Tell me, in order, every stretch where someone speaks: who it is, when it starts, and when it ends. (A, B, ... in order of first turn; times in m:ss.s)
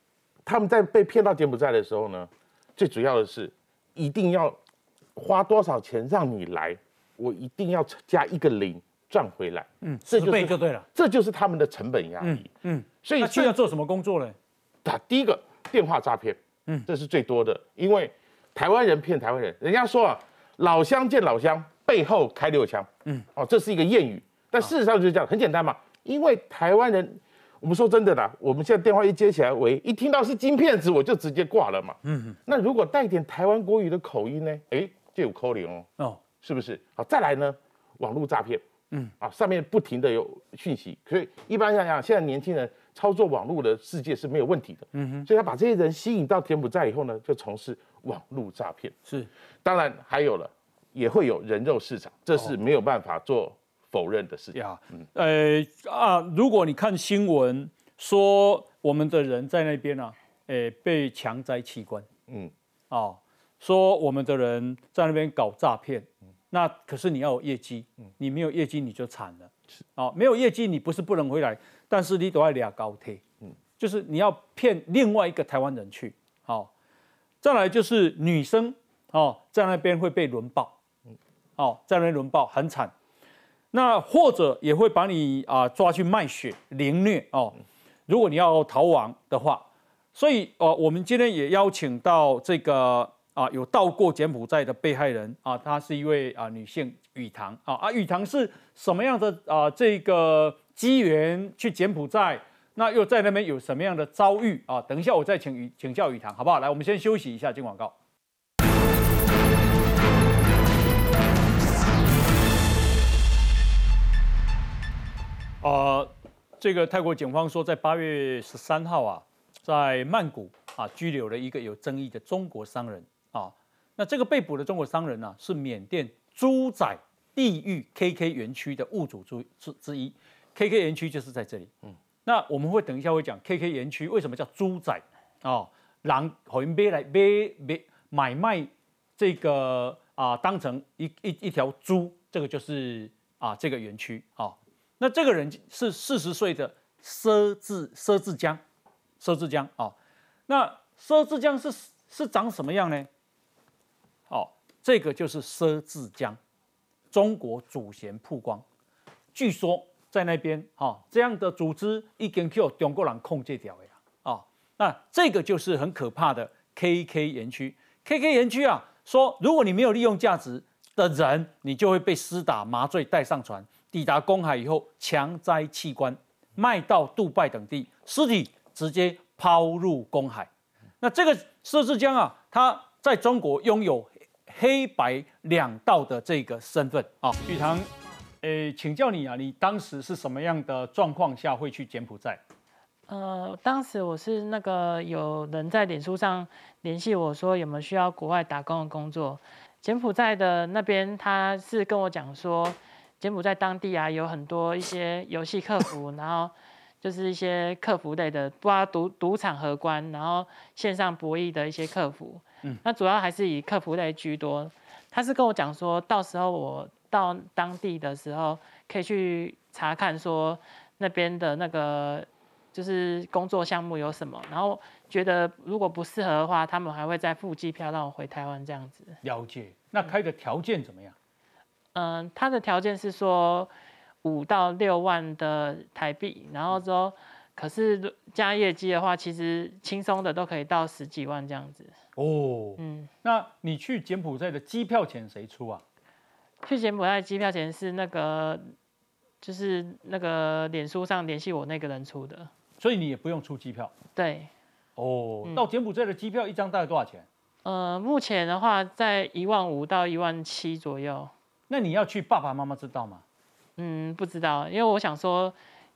0:00.5-0:04.6 A
0:05.2-0:12.5 A
0:09.8-0:10.9 B
0:12.2-0:14.4 B
0:13.0-0:13.5 A
0:14.8-0:38.6 A
0:32.0-0:32.4 B
0:39.2-0:48.9 A
0:45.0-0:45.3 B
0:49.6-0:55.0 A
0:54.5-1:02.1 B
1:02.9-1:13.2 B
1:13.8-1:16.7 B
1:17.4-1:20.7 B
1:21.6-1:22.9 B
1:23.7-1:27.6 B
1:28.1-1:47.9 B
1:55.6-2:11.7 B
2:12.2-2:28.6 B
2:29.2-2:30.0 B
2:30.5-2:33.1 B
2:34.3-2:36.4 B
2:37.1-2:38.6 B
2:39.4-3:00.5 B
3:01.0-3:07.9 B
3:08.4-3:12.4 B
3:13.1-3:49.2 C
3:49.2-3:51.1 B
3:52.0-3:53.7 C
3:54.2-4:01.9 C
4:02.2-4:05.8 B
4:02.8-4:03.1 C
4:06.6-4:08.7 C
4:09.4-4:12.5 C
4:12.8-4:13.9 B
4:14.1-4:14.5 C
4:15.0-4:17.3 B
4:17.6-4:21.3 C
4:21.7-4:23.2 B
4:23.8-4:25.6 C